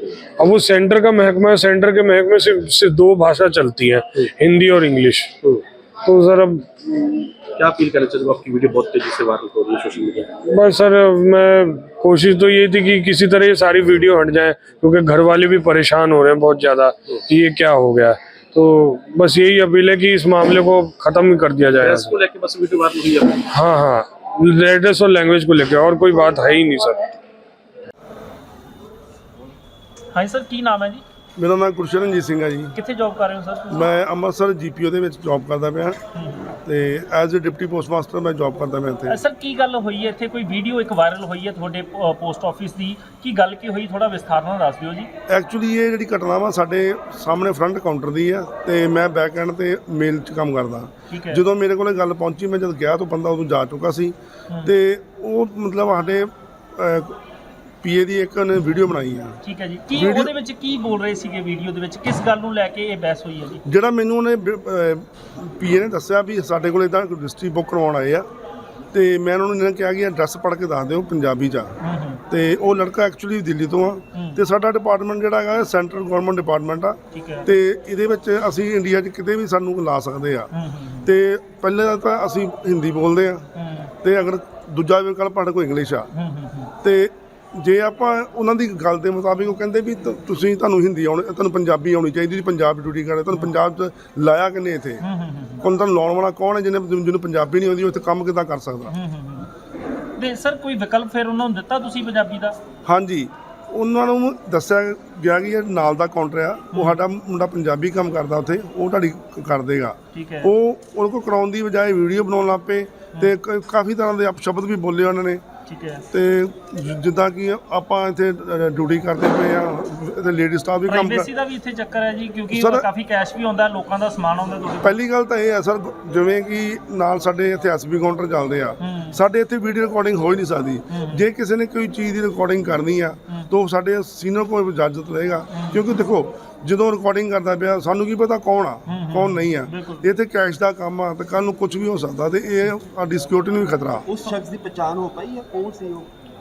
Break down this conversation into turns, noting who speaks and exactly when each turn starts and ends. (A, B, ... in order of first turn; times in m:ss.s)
0:00.4-0:05.3 A
0:06.0-0:07.2 A
0:07.6-0:10.3 B
0:10.4-0:22.1 A
0:21.7-0:23.4 B
0:23.5-0:27.1 A
0:30.1-0:31.0 C
0:31.4-0:32.7 D
0:32.7-0:33.9 C
0:33.7-0:36.0 D
0:36.1-0:36.5 C
0:36.6-0:39.2 D
0:39.1-0:45.1 C
0:45.3-0:54.1 D
0:51.1-0:51.4 C
0:54.6-0:57.2 D
0:57.8-0:59.4 D
0:59.4-1:03.6 C
0:59.9-1:00.3 D
1:03.6-1:08.3 D
1:08.9-1:11.7 D
1:11.8-1:12.2 C
1:12.3-1:20.5 D
1:14.1-1:14.4 C
1:17.1-1:17.5 C
1:20.5-1:21.1 C
1:21.0-1:23.5 D
1:23.6-1:23.9 C
1:24.0-1:26.1 D
1:26.1-1:26.7 C
1:26.8-1:35.0 D
1:35.0-1:35.6 C
1:35.6-1:38.9 D
1:38.9-1:39.5 C
1:40.2-1:42.6 C
1:42.8-1:55.4 D
1:46.7-1:47.0 C
1:50.1-1:50.5 C
1:55.7-1:56.0 C
1:56.1-2:01.3 D
2:00.9-2:05.0 C
2:02.5-2:02.8 D
2:04.8-2:24.0 D
2:08.8-2:09.2 C
2:10.9-2:11.2 C
2:15.5-2:15.8 C
2:18.9-2:20.0 C
2:24.1-2:26.0 E